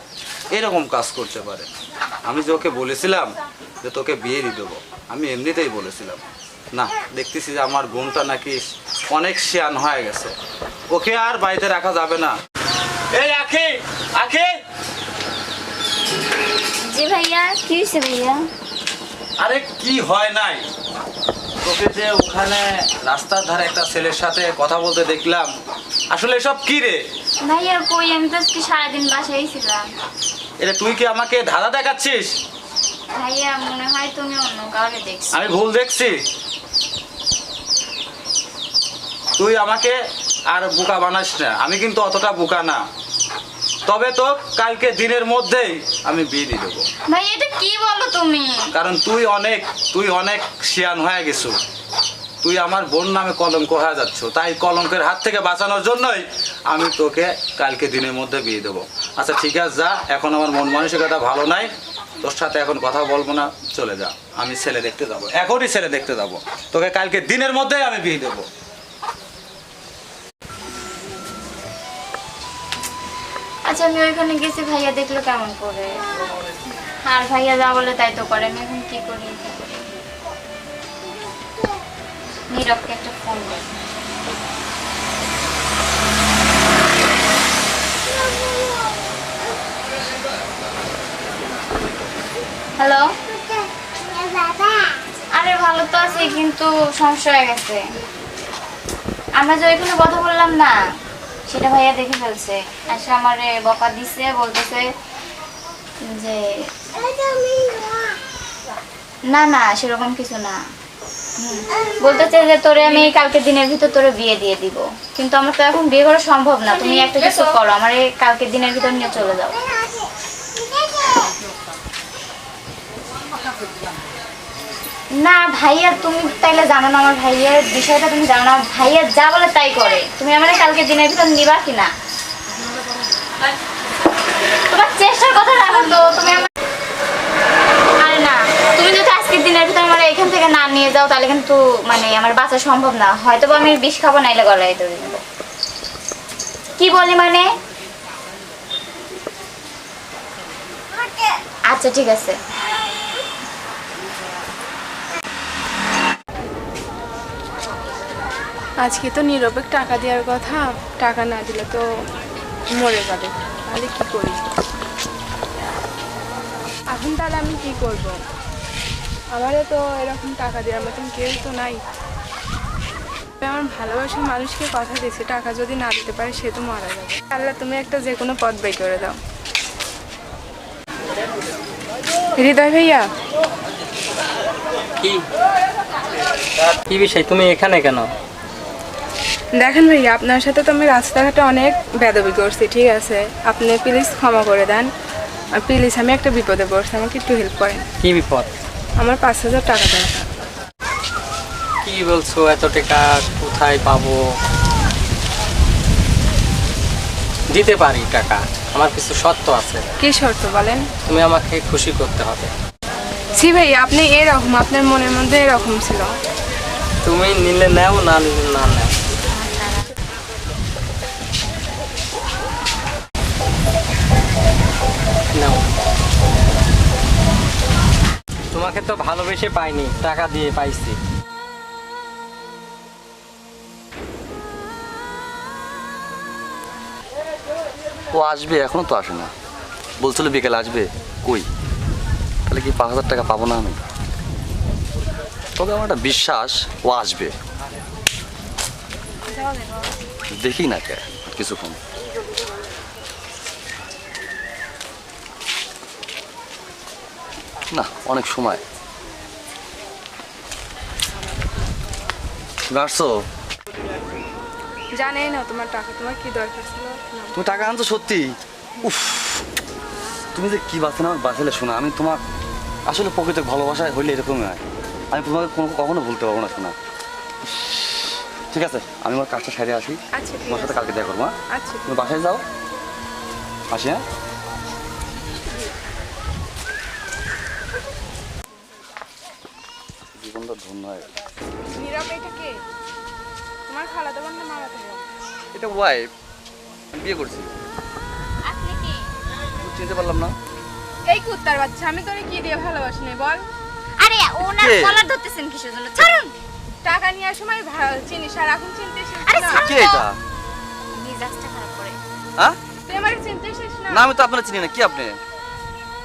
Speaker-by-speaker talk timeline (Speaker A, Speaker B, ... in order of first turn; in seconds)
Speaker A: 0.5-1.7, 2.2-3.3, 3.8-6.2, 6.7-10.3, 10.9-12.3, 13.1-14.5, 19.4-20.6, 21.6-25.5, 26.1-27.0, 30.6-32.3, 35.3-36.1, 39.4-40.0, 40.5-42.8, 43.9-46.9, 48.7-51.6, 52.4-61.7, 62.2-68.5
Speaker B: 16.9-18.4, 27.4-29.9, 33.1-35.4, 47.1-48.5, 73.6-76.0, 77.0-79.7, 82.5-83.7, 92.8-93.1, 94.1-97.9, 99.4-100.8, 101.5-104.9, 106.1-106.5, 109.3-110.6, 111.4-119.7, 125.2-131.9, 134.7-136.5, 138.0-145.2, 146.8-147.5, 151.7-152.3, 219.3-219.9, 249.3-250.0, 298.4-299.1, 304.0-306.3, 309.2-310.1, 310.9-312.0
Speaker C: 116.7-117.5, 158.8-161.8, 162.7-164.5, 166.9-168.2, 169.3-171.8, 173.4-179.2, 182.4-183.1, 189.6-194.9, 195.5-197.8, 199.0-200.3, 210.0-210.9, 213.3-216.1, 264.9-267.6, 280.1-280.9, 281.5-282.0, 291.6-292.6, 293.7-295.1, 301.1-303.4, 306.8-309.6, 312.9-314.1
Speaker D: 186.9-188.1, 198.0-198.5, 201.8-204.2, 207.5-209.8, 211.0-212.5, 217.0-218.9, 225.3-225.6, 228.5-231.0
Speaker E: 238.1-239.3, 240.0-241.5, 242.5-243.8, 245.6-247.3, 250.3-251.8, 257.7-258.6, 262.7-263.2, 267.3-269.4, 270.3-272.2, 272.9-276.8, 278.5-282.4, 283.7-284.0, 290.1-291.1, 295.5-296.1, 296.9-297.6, 299.5-300.4, 304.6-305.0, 309.5-310.2, 313.9-315.1